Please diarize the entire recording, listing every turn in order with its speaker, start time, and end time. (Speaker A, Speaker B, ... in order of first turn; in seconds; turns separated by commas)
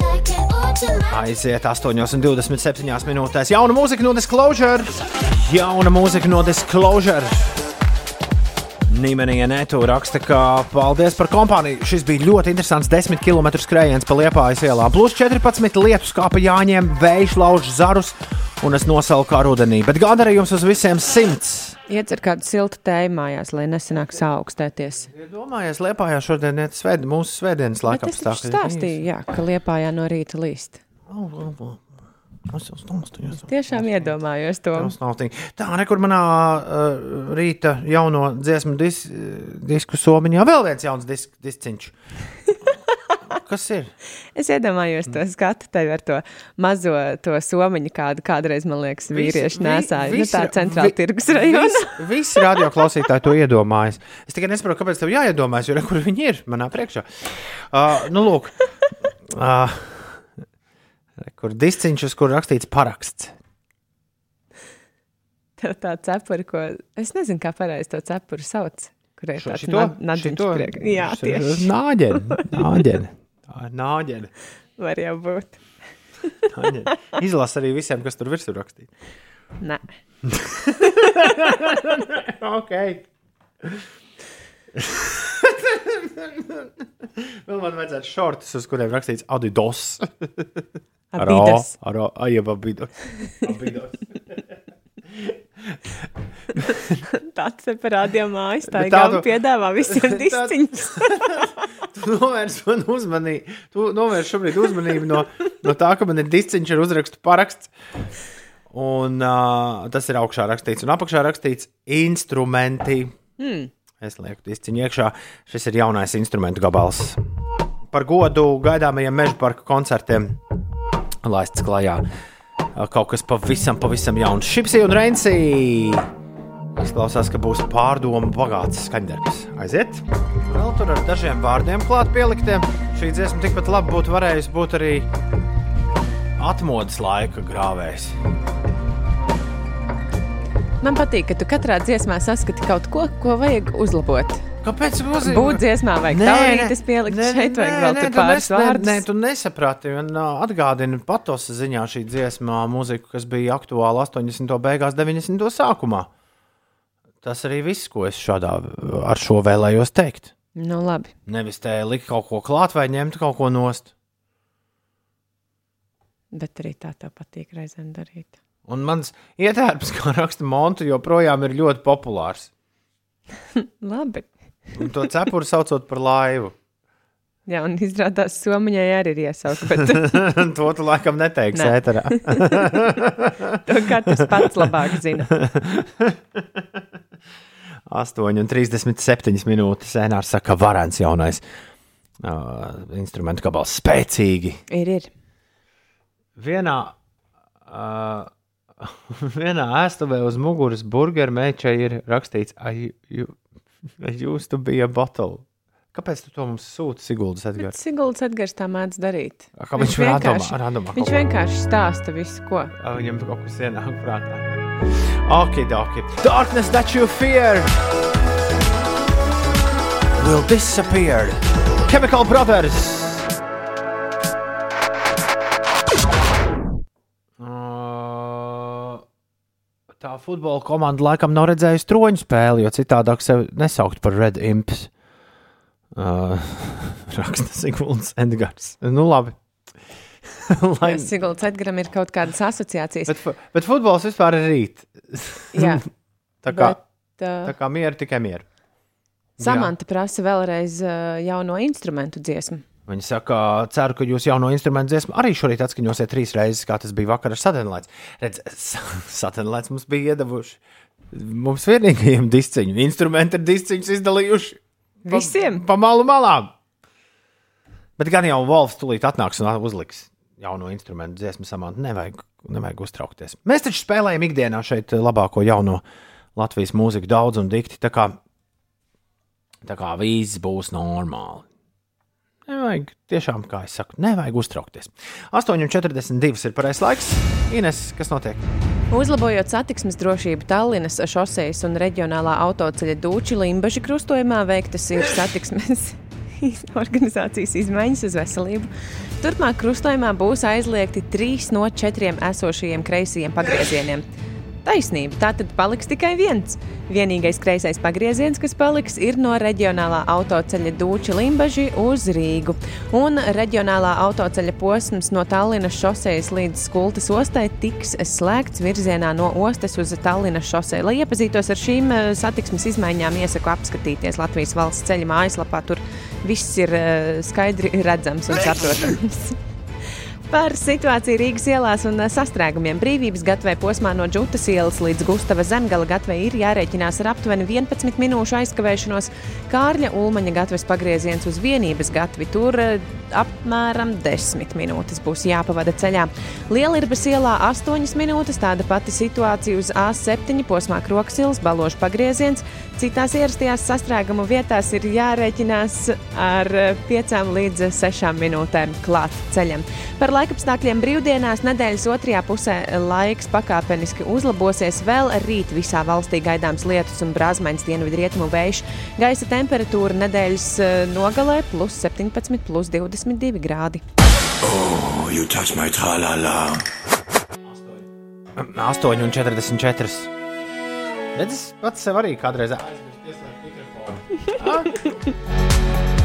Speaker A: 1.0-7.6, Speaker A: 8.9-21.8, Speaker B: 21.9-25.1, Speaker A: 25.1-29.1, Speaker B: 27.9-30.8, Speaker A: 31.1-31.9, Speaker A: 32.5-34.1, Speaker B: 33.5-34.9, Speaker A: 34.8-41.9, Speaker A: 43.3-43.9, Speaker B: 44.3-52.0, Speaker A: 49.1-58.6, Speaker A: 59.2-60.3, Speaker A: 61.2-63.3, Speaker B: 65.6-71.7, Speaker A: 69.4-74.3, Speaker B: 72.2-72.8, Speaker B: 74.8-75.6, Speaker A: 76.5-78.9, Speaker B: 79.6-79.8, Speaker A: 80.2-83.1, Speaker A: 83.6-83.9, Speaker A: 84.7-90.6, Speaker B: 91.1-91.7, Speaker A: 91.2-94.5, Speaker A: 95.1-97.0, Speaker B: 97.0-101.5, Speaker A: 98.7-107.7, Speaker A: 108.7-113.1, Speaker B: 113.4-113.7, Speaker A: 114.0-117.2, Speaker A: 117.9-120.4, Speaker A: 121.2-122.0, Speaker A: 122.7-126.1, Speaker A: 126.8-135.1, Speaker A: 136.4-138.2, Speaker B: 140.8-144.4, Speaker A: 144.6-156.1, Speaker B: 145.2-149.0, Speaker A: 157.2-160.3, Speaker B: 160.6-161.1, Speaker A: 161.2-163.9, Speaker B: 166.3-168.3, Speaker A: 168.7-172.5, Speaker B: 173.6-174.3, Speaker A: 174.8-176.6, Speaker B: 177.5-180.4, Speaker A: 179.8-183.6, Speaker B: 181.5-182.9, Speaker B: 183.6-185.3, Speaker A: 184.2-184.4, Speaker A: 185.3-186.8, Speaker A: 187.9-191.4, Speaker A: 192.2-194.6, Speaker B: 194.7-195.1, Speaker A: 196.3-196.9, Speaker A: 197.7-203.4, Speaker A: 204.0-207.7, Speaker B: 207.6-212.7, Speaker A: 209.6-211.2, Speaker A: 212.8-214.6, Speaker A: 215.2-217.8, Speaker A: 220.2-223.3, Speaker A: 227.4-229.0, Speaker A: 230.0-234.9, Speaker A: 235.9-239.4, Speaker A: 240.2-241.1, Speaker B: 240.8-243.1, Speaker A: 243.1-245.8, Speaker B: 245.5-245.8, Speaker A: 246.4-246.8, Speaker B: 246.5-247.5, Speaker A: 247.4-248.4, Speaker A: 249.4-249.7, Speaker B: 249.4-252.6, Speaker A: 252.9-260.6, Speaker A: 261.1-266.5, Speaker B: 265.0-265.6, Speaker A: 268.0-275.8, Speaker A: 276.4-278.2, Speaker A: 279.6-281.4, Speaker A: 282.5-288.4, Speaker B: 288.9-298.7, Speaker B: 299.2-304.0, Speaker B: 304.6-329.4, Speaker B: 330.3-373.8, Speaker C: 374.4-376.6, Speaker A: 377.4-377.8, Speaker A: 378.3-380.1, Speaker A: 381.1-384.8